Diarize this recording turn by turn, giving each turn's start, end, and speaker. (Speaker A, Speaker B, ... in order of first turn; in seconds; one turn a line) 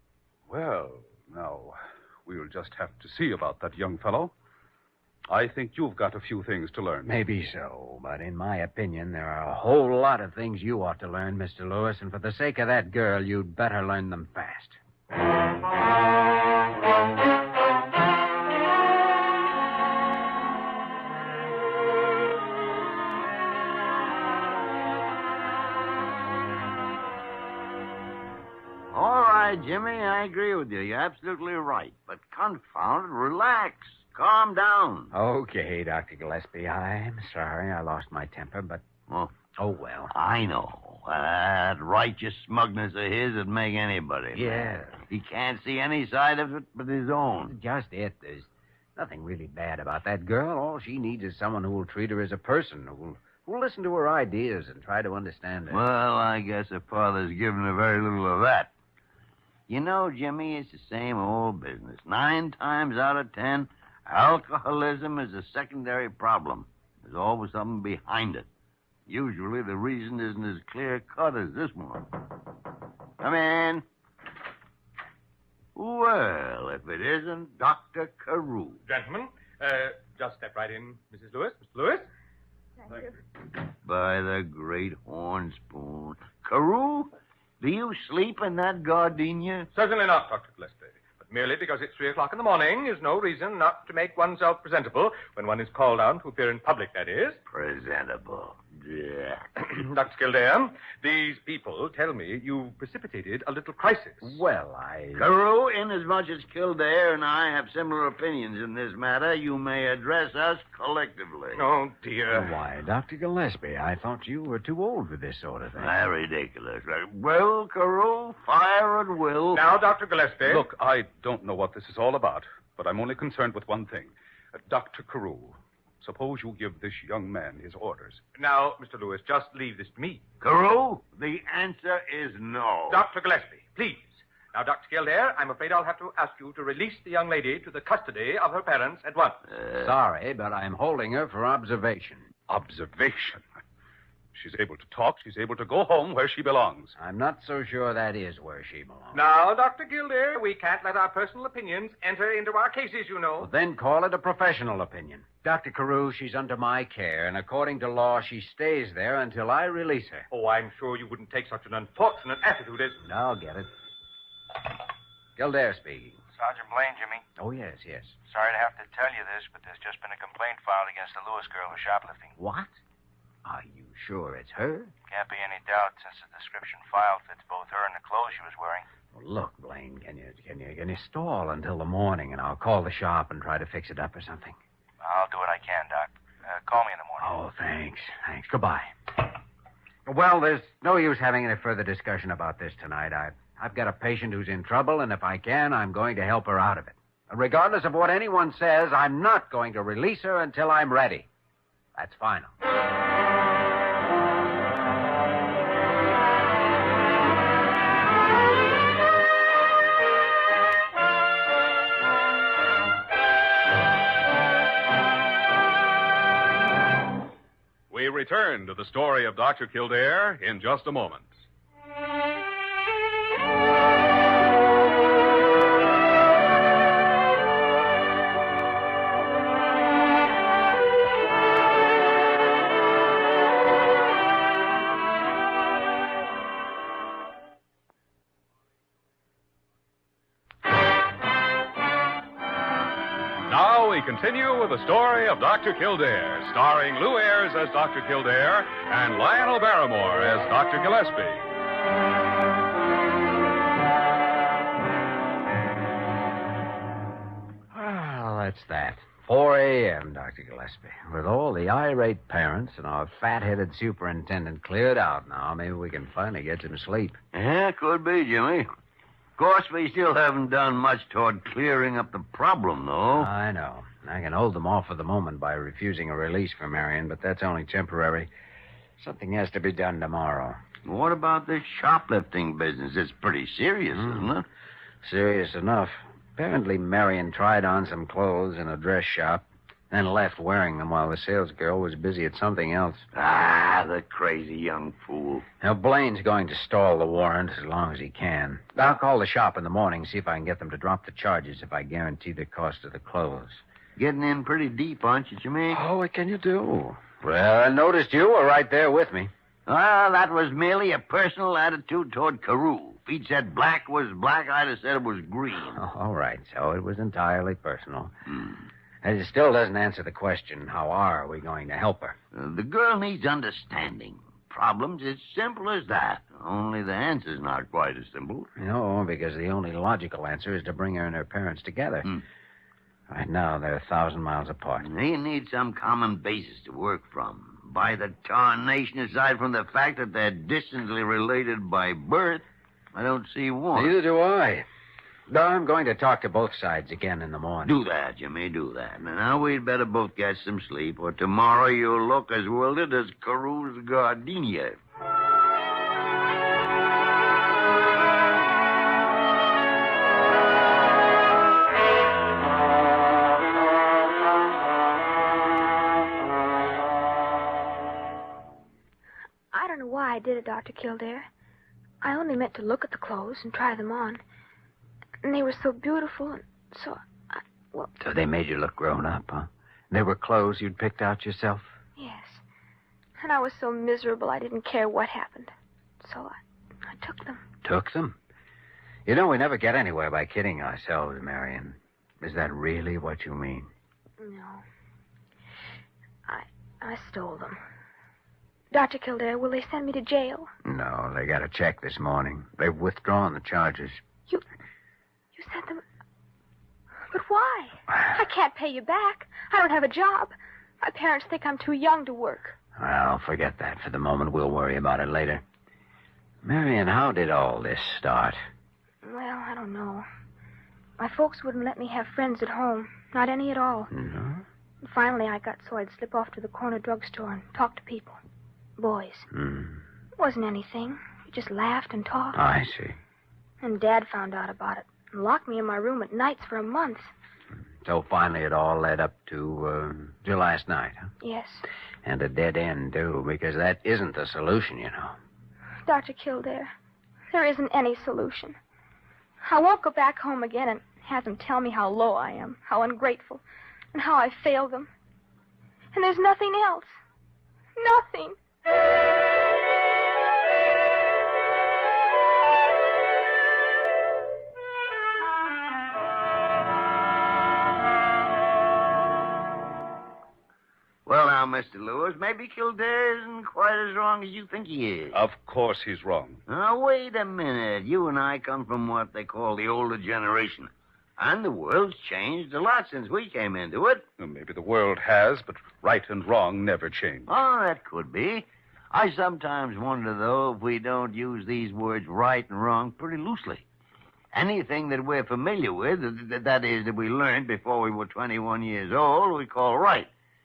Speaker A: 0.5-4.3
Speaker A: 5.3-7.1
Speaker B: 7.0-14.8
Speaker C: 28.9-35.1
Speaker B: 35.1-38.8
Speaker B: 39.5-40.1
Speaker C: 40.1-47.5
Speaker B: 44.3-45.0
Speaker B: 47.5-55.8
Speaker C: 55.7-58.7
Speaker C: 59.7-68.5
Speaker C: 69.1-72.3
Speaker C: 73.2-73.8
Speaker C: 75.8-78.8
Speaker D: 78.8-82.1
Speaker C: 83.8-89.7
Speaker D: 89.7-97.4
Speaker C: 97.5-99.5
Speaker D: 99.6-104.4
Speaker B: 104.2-105.3
Speaker C: 105.2-111.6
Speaker D: 111.5-112.5
Speaker B: 112.3-115.9
Speaker C: 115.8-119.7
Speaker D: 119.5-120.7
Speaker A: 120.4-128.2
Speaker D: 128.3-130.2
Speaker C: 130.4-133.0
Speaker D: 132.9-139.4
Speaker B: 139.8-142.3
Speaker A: 142.5-143.4
Speaker A: 144.3-146.9
Speaker B: 147.0-149.2
Speaker D: 149.1-153.5
Speaker B: 153.4-160.3
Speaker D: 160.3-163.0
Speaker B: 163.0-163.7
Speaker B: 165.4-166.2
Speaker E: 166.4-167.2
Speaker B: 167.4-168.2
Speaker E: 168.3-172.3
Speaker B: 172.4-172.8
Speaker B: 173.4-174.9
Speaker E: 175.1-178.8
Speaker B: 179.1-184.6
Speaker E: 185.0-187.3
Speaker B: 187.2-188.9
Speaker B: 190.1-201.3
Speaker B: 201.9-202.5
Speaker F: 217.9-221.3
Speaker F: 243.5-251.4
Speaker B: 257.7-267.2
Speaker C: 267.3-268.7
Speaker C: 269.4-273.3
Speaker B: 273.1-278.3
Speaker B: 279.0-280.6
Speaker C: 280.8-284.4
Speaker B: 285.0-293.1
Speaker C: 293.1-295.4
Speaker B: 295.6-303.6
Speaker C: 304.0-305.8
Speaker B: 305.7-309.3
Speaker C: 309.7-315.8
Speaker B: 315.7-318.1
Speaker B: 319.0-322.1
Speaker C: 322.3-328.5
Speaker B: 328.6-332.1
Speaker B: 333.1-334.9
Speaker C: 334.8-343.9
Speaker B: 343.7-344.6
Speaker B: 345.3-347.8
Speaker C: 347.6-354.8
Speaker G: 369.5-371.3
Speaker G: 372.0-374.2
Speaker G: 375.2-377.9
Speaker B: 378.0-381.7
Speaker G: 382.0-382.4
Speaker G: 383.2-387.4
Speaker B: 387.6-388.2
Speaker B: 389.1-393.7
Speaker G: 394.2-394.6
Speaker G: 396.3-397.6
Speaker G: 398.7-400.5
Speaker B: 400.6-404.0
Speaker G: 405.3-405.8
Speaker G: 407.1-412.6
Speaker B: 412.8-415.4
Speaker B: 416.4-418.4
Speaker G: 419.0-420.1
Speaker G: 421.0-423.9
Speaker B: 423.9-424.4
Speaker G: 424.8-428.2
Speaker G: 428.8-429.3
Speaker B: 429.3-429.8
Speaker G: 430.1-432.4
Speaker B: 432.3-433.0
Speaker G: 433.6-437.1
Speaker B: 437.8-441.1
Speaker G: 441.2-441.6
Speaker B: 442.0-445.1
Speaker G: 445.9-446.7
Speaker G: 447.3-448.6
Speaker G: 449.4-453.4
Speaker G: 453.9-454.9
Speaker G: 455.9-456.9
Speaker G: 457.8-458.4
Speaker C: 471.1-475.2
Speaker A: 475.1-476.4
Speaker C: 476.5-484.1
Speaker A: 484.2-487.3
Speaker C: 487.3-493.6
Speaker C: 494.3-500.1